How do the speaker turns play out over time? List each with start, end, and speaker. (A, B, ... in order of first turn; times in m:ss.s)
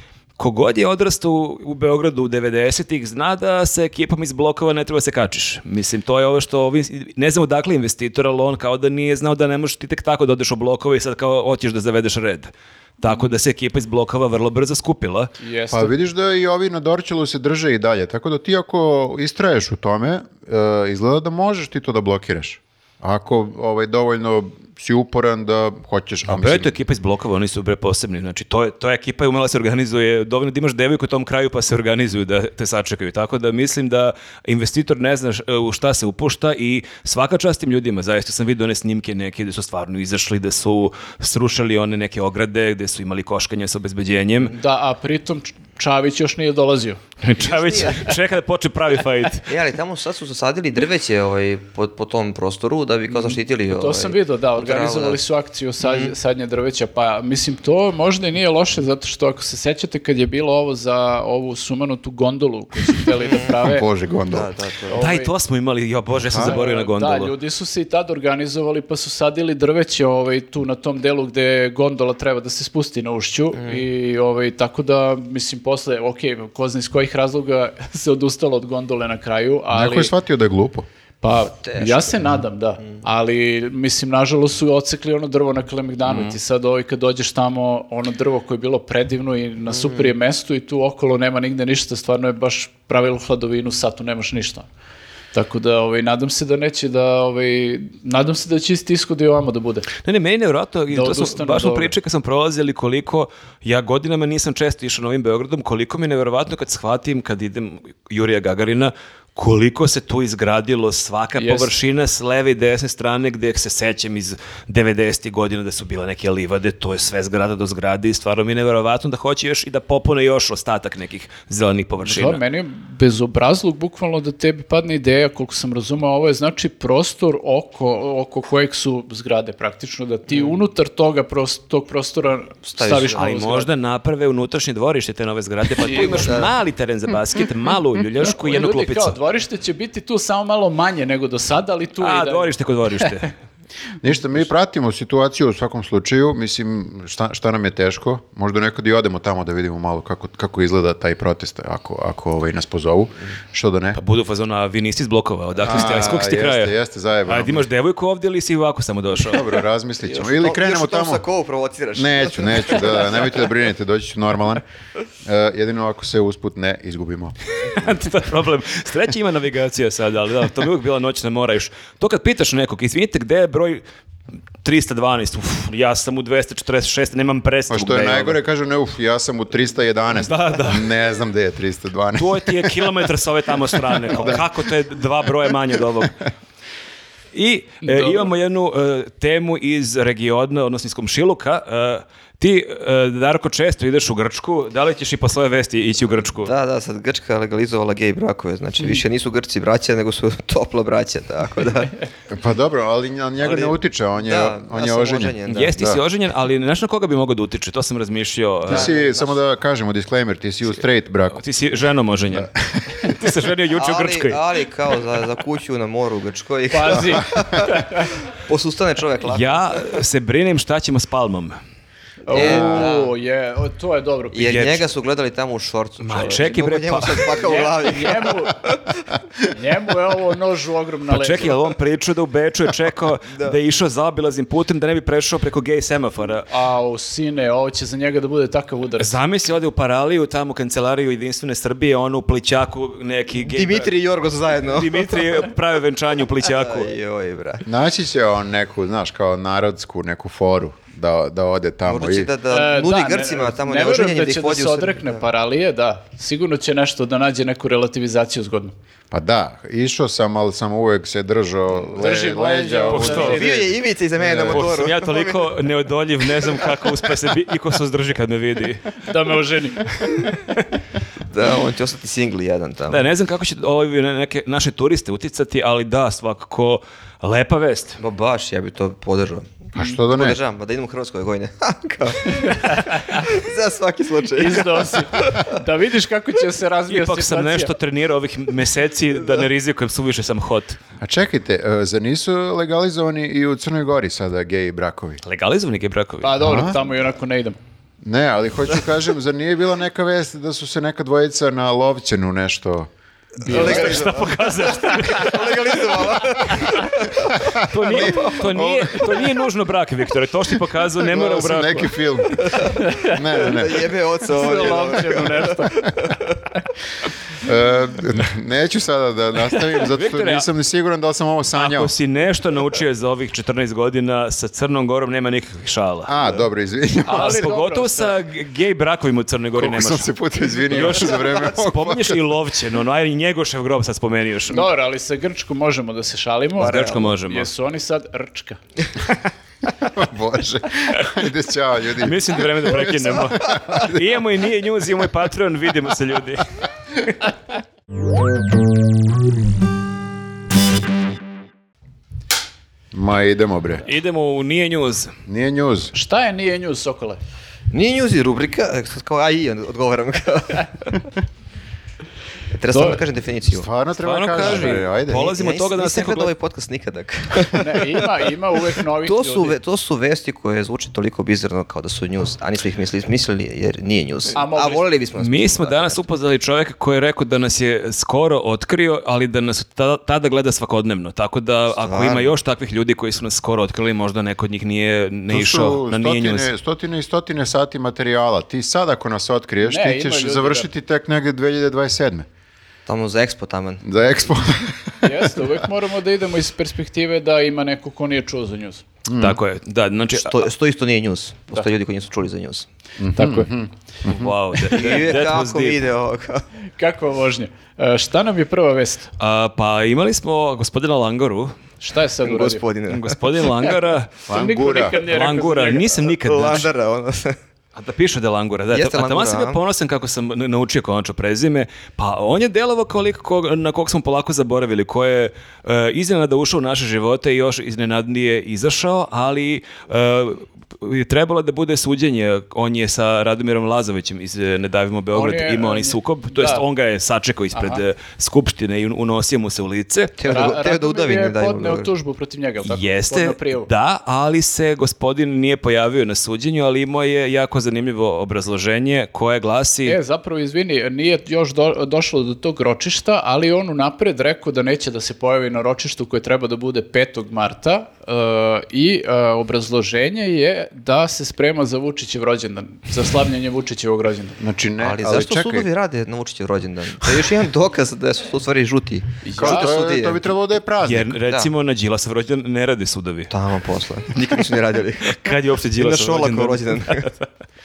0:00.4-0:15.3 A
0:15.4-0:15.9 B
0:15.7-0:26.7 C
0:26.3-0:44.6 A
0:44.5-0:47.0 B
0:47.2-0:49.5 A
0:47.4-0:48.1 D
0:49.5-0:55.2 D
0:53.1-1:03.9 B
0:55.8-0:56.1 D
1:03.2-1:03.6 D
1:03.6-1:04.5 C
1:04.3-1:05.0 D
1:04.9-1:05.3 B
1:05.0-1:07.3 A
1:06.4-1:20.1 B
1:13.5-1:13.8 D
1:19.7-1:20.9 C
1:21.2-1:34.7 B
1:21.6-1:22.1 D
1:29.7-1:30.1 D
1:35.3-1:39.9 B
1:40.0-2:02.4 A
1:40.9-1:41.9 B
1:51.4-1:51.7 B
2:02.0-2:13.7 B
2:12.8-2:13.2 D
2:13.1-2:19.2 A
2:15.8-2:16.4 B
2:16.2-2:16.5 D
2:18.2-2:23.1 B
2:22.0-2:23.3 A
2:24.0-2:34.0 C
2:34.0-2:36.7 A
2:35.6-2:37.7 C
2:37.3-2:39.5 A
2:39.2-2:41.2 C
2:40.0-2:43.5 D
2:42.0-2:44.6 C
2:45.2-2:47.4 C
2:47.6-2:53.8 A
2:54.6-2:58.4 A
2:57.7-3:02.8 C
3:00.2-3:00.9 A
3:02.2-3:06.2 A
3:04.1-3:04.4 C
3:07.3-3:16.5 A
3:07.8-3:08.2 B
3:16.4-3:21.9 D
3:22.3-3:26.0 C
3:23.4-3:25.8 D
3:25.5-3:28.9 A
3:28.7-3:29.4 D
3:28.7-3:31.4 C
3:31.3-3:34.4 A
3:32.3-3:33.2 C
3:33.8-3:39.9 D
3:36.7-3:38.1 B
3:39.2-3:41.6 A
3:42.3-3:44.6 B
3:42.3-3:43.1 D
3:42.4-3:42.9 C
3:44.3-3:48.9 D
3:44.4-3:44.9 A
3:46.0-3:47.7 A
3:47.4-3:48.6 B
3:49.5-3:51.6 B
3:51.1-3:56.5 A
3:56.5-3:59.2 B
3:59.0-4:04.0 A
4:03.4-4:05.2 D
4:04.6-4:06.9 A
4:06.5-4:07.6 D
4:07.6-4:12.3 C
4:11.9-4:15.2 D
4:12.5-4:18.7 B
4:19.1-4:23.5 C
4:22.0-4:23.7 B
4:22.9-4:23.5 A
4:23.1-4:25.6 D
4:24.2-4:24.6 C
4:24.3-4:29.0 A
4:26.4-4:26.7 D
4:29.0-4:30.2 B
4:31.3-4:33.0 D
4:32.9-4:38.0 A
4:38.0-4:45.5 D
4:39.8-4:40.4 C
4:42.4-4:43.2 B
4:44.4-4:47.7 B
4:46.9-4:50.8 A
4:51.0-4:55.2 C
4:55.2-4:56.4 A
4:56.2-4:57.6 B
4:56.4-4:56.8 C
4:58.0-5:02.9 C
5:03.4-5:05.4 B
5:03.4-5:07.3 D
5:03.5-5:05.8 A
5:07.3-5:09.3 C
5:07.6-5:12.0 A
5:08.0-5:08.3 D
5:11.0-5:13.9 C
5:12.4-5:12.8 D
5:12.6-5:13.5 B
5:13.4-5:16.3 D
5:14.3-5:16.1 B
5:17.4-5:21.9 C
5:19.9-5:20.5 A
5:21.5-5:26.1 A
5:26.1-5:27.4 C
5:27.1-5:28.2 B
5:27.1-5:30.1 A
5:29.6-5:32.2 C
5:30.6-5:34.7 A
5:34.5-5:38.6 B
5:36.6-5:37.5 A
5:36.6-5:36.9 D
5:39.8-5:44.0 C
5:42.0-5:46.4 A
5:52.9-5:53.9 C
5:53.9-5:55.1 A
5:55.3-5:55.9 C
5:55.9-5:57.2 B
5:57.7-6:01.1 D
6:02.5-6:03.7 D
6:02.7-6:03.0 B
6:03.5-6:05.3 C
6:04.0-6:06.3 A
6:04.4-6:08.0 D
6:07.5-6:09.6 B
6:09.0-6:16.0 D
6:14.3-6:14.9 B
6:15.2-6:26.5 A
6:21.8-6:22.3 D
6:25.3-6:32.3 C
6:29.6-6:30.7 B
6:32.9-6:33.8 D
6:33.8-6:35.5 C
6:35.0-6:38.8 B
6:39.1-6:39.4 C
6:39.2-6:40.5 A
6:40.1-6:42.7 D
6:43.0-6:44.3 C
6:43.2-6:43.5 B
6:44.0-6:45.8 A
6:44.7-6:46.4 D
6:46.8-6:49.1 B
6:49.2-6:51.5 A
6:51.8-6:52.6 B
6:52.2-6:53.5 D
6:52.9-6:54.2 A
6:54.3-6:55.0 C
6:54.3-6:56.0 B
6:54.8-6:56.7 A
6:56.2-6:57.4 D
6:57.8-7:20.2 A
6:58.7-6:59.6 D
7:15.1-7:16.6 B
7:17.5-7:17.8 B
7:20.2-7:21.9 D
7:20.2-7:23.7 B
7:22.6-7:30.0 A
7:29.8-7:44.4 B
7:44.4-7:45.7 C
7:44.8-7:50.2 D
7:49.2-7:49.7 B
7:49.4-7:51.2 C
7:50.8-7:53.3 A
7:53.3-7:57.1 D
7:55.0-7:57.2 A